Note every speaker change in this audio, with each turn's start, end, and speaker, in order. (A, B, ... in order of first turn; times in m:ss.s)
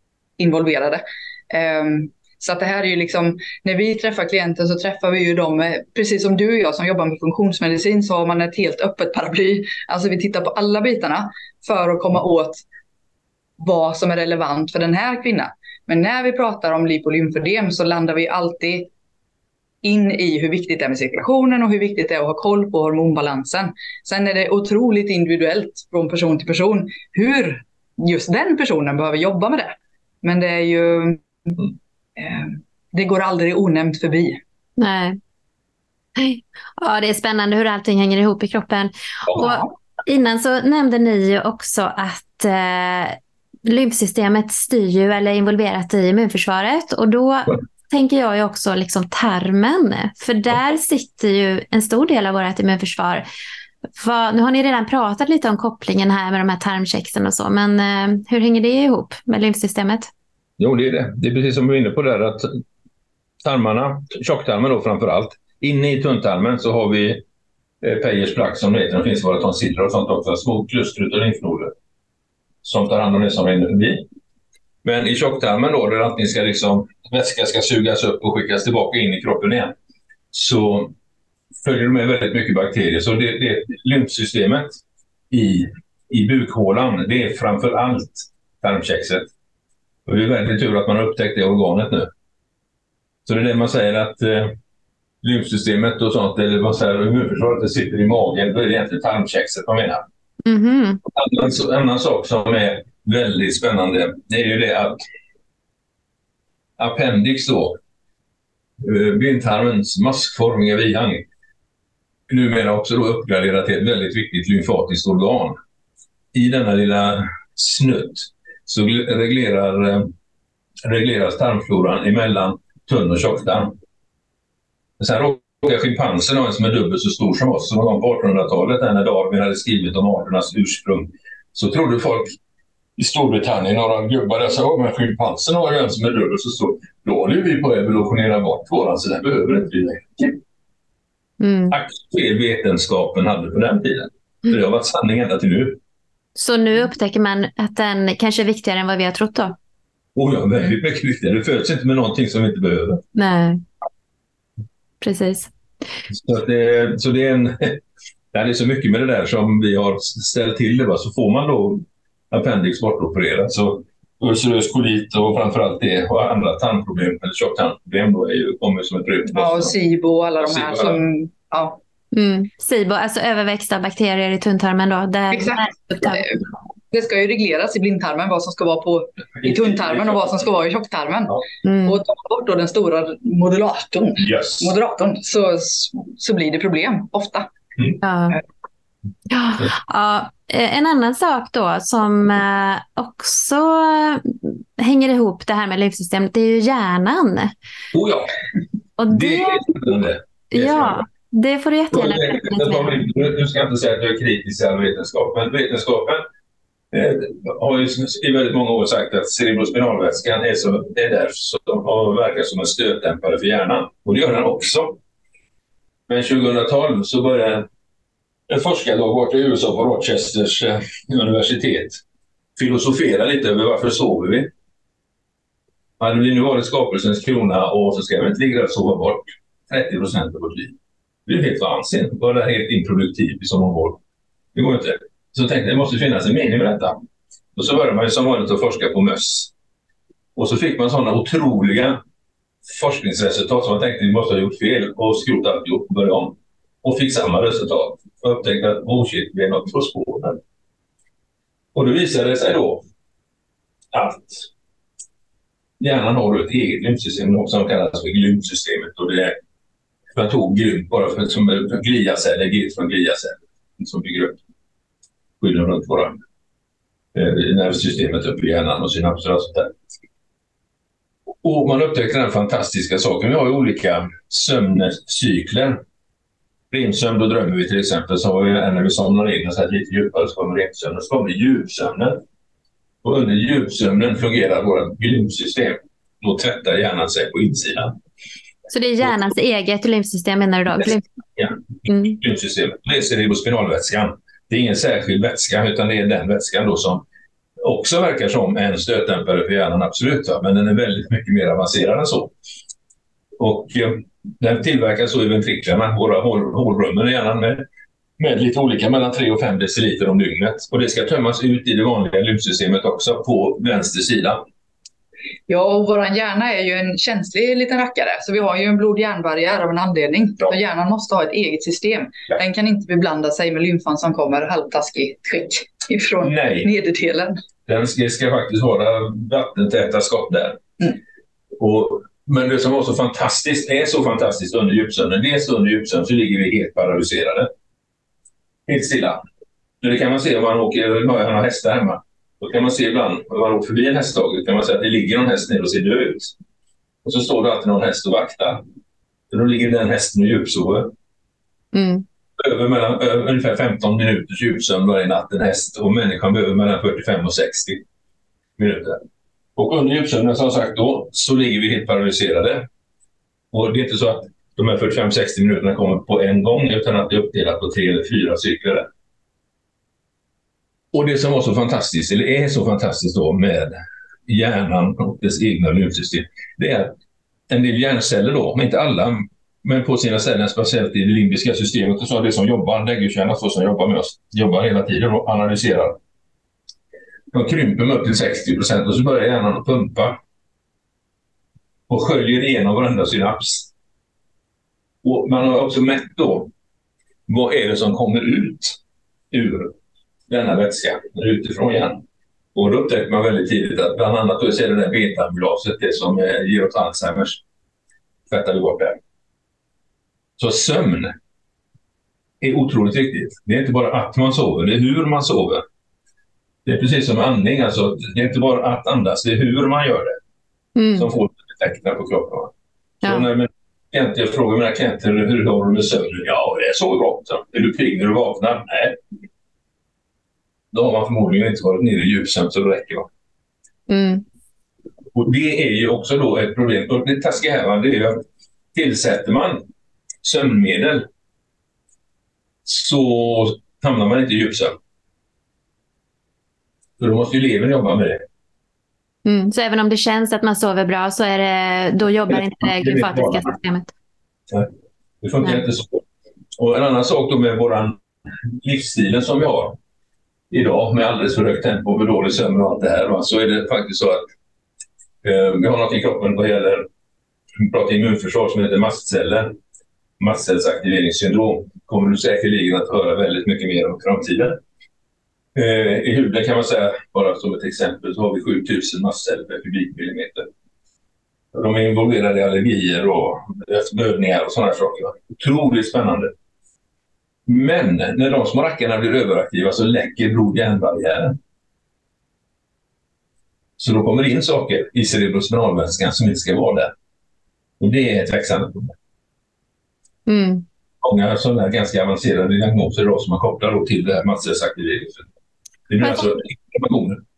0:00.4-0:12.6 A
0:13.6-0:18.9 A
0:19.8-0:31.2 A
0:32.2-0:34.4 A
0:34.8-0:35.2 B
0:36.2-0:53.2 B
0:39.4-0:39.7 A
0:54.0-1:00.1 B
1:00.6-1:02.5 C
1:03.4-1:07.2 C
1:07.8-1:11.7 C
1:12.6-1:14.0 C
1:14.8-1:19.7 C
1:20.3-1:20.9 C
1:21.6-1:29.3 C
1:30.0-1:32.1 C
1:33.2-1:34.5 C
1:35.2-1:40.0 C
1:40.4-1:41.0 B
1:41.1-1:45.0 C
1:46.8-1:47.8 C
1:48.8-1:51.2 C
1:52.3-1:55.6 C
1:56.3-2:00.1 C
2:00.8-2:03.7 C
2:05.0-2:12.4 C
2:13.0-2:20.4 C
2:21.4-2:21.8 B
2:21.7-2:25.8 C
2:26.4-2:29.6 B
2:30.1-2:33.0 C
2:33.1-2:33.6 B
2:35.0-2:35.5 B
2:36.1-2:37.8 C
2:38.3-2:49.7 C
2:49.3-2:51.8 A
2:50.4-2:51.0 C
2:52.1-2:56.3 B
2:55.3-3:07.5 A
2:59.4-3:00.4 C
3:01.6-3:02.0 B
3:04.2-3:04.7 C
3:08.0-3:08.4 B
3:09.3-3:17.5 B
3:17.9-3:18.3 C
3:19.0-3:19.7 B
3:19.1-3:21.0 C
3:20.5-3:23.0 B
3:21.9-3:26.2 C
3:26.9-3:35.0 C
3:36.1-3:37.6 C
3:38.5-3:42.0 C
3:42.6-3:44.5 C
3:46.0-3:50.7 C
3:51.2-3:54.0 C
3:54.5-3:57.0 C
3:57.5-3:59.5 C
4:00.4-4:02.0 C
4:02.6-4:10.4 C
4:11.7-4:12.8 C
4:13.9-4:14.5 C
4:15.8-4:19.4 C
4:20.1-4:24.4 C
4:25.4-4:26.2 C
4:27.1-4:29.7 C
4:31.4-4:35.8 C
4:36.7-4:42.2 C
4:43.0-4:48.0 C
4:48.7-4:51.0 B
4:50.8-4:51.6 C
4:51.9-4:52.2 B
4:52.1-4:57.0 C
4:57.6-5:02.3 C
5:03.4-5:07.6 C
5:08.2-5:14.4 C
5:15.5-5:27.3 A
5:26.2-5:26.7 C
5:27.7-5:30.6 C
5:31.6-5:37.5 C
5:38.7-5:39.2 C
5:39.8-5:46.3 C
5:47.0-5:48.6 C
5:49.3-5:50.9 C
5:51.7-5:52.0 B
5:52.4-5:57.8 C
5:58.6-5:59.0 C
5:59.6-6:02.7 C
6:03.5-6:08.9 C
6:10.9-6:13.7 C
6:14.2-6:16.9 C
6:17.5-6:26.0 C
6:27.3-6:30.2 C
6:31.9-6:33.7 C
6:35.0-6:36.5 C
6:37.3-6:38.8 C
6:39.3-6:39.7 C
6:40.3-6:42.0 C
6:42.5-6:47.4 C
6:48.3-6:49.0 C
6:50.4-6:51.2 C
6:52.4-6:55.6 C
6:56.6-7:00.2 C
7:00.8-7:01.1 B
7:01.0-7:02.5 C
7:03.0-7:03.3 B
7:03.0-7:09.0 C
7:10.7-7:13.1 C
7:13.9-7:14.2 B
7:15.1-7:18.2 C
7:18.7-7:19.6 C
7:20.2-7:21.0 C
7:22.6-7:24.8 C
7:27.0-7:28.2 C
7:29.2-7:33.9 B
7:32.3-7:33.5 C
7:35.2-7:36.0 C
7:36.6-7:39.8 C
7:40.5-7:44.2 C
7:45.2-7:46.8 C
7:47.6-7:49.5 C
7:50.2-7:54.6 C
7:55.5-8:00.5 C
8:01.5-8:06.3 C
8:07.4-8:11.4 C
8:13.8-8:16.9 C
8:17.8-8:18.9 C
8:20.3-8:20.6 B
8:21.0-8:25.2 C
8:25.9-8:27.2 C
8:26.0-8:26.3 B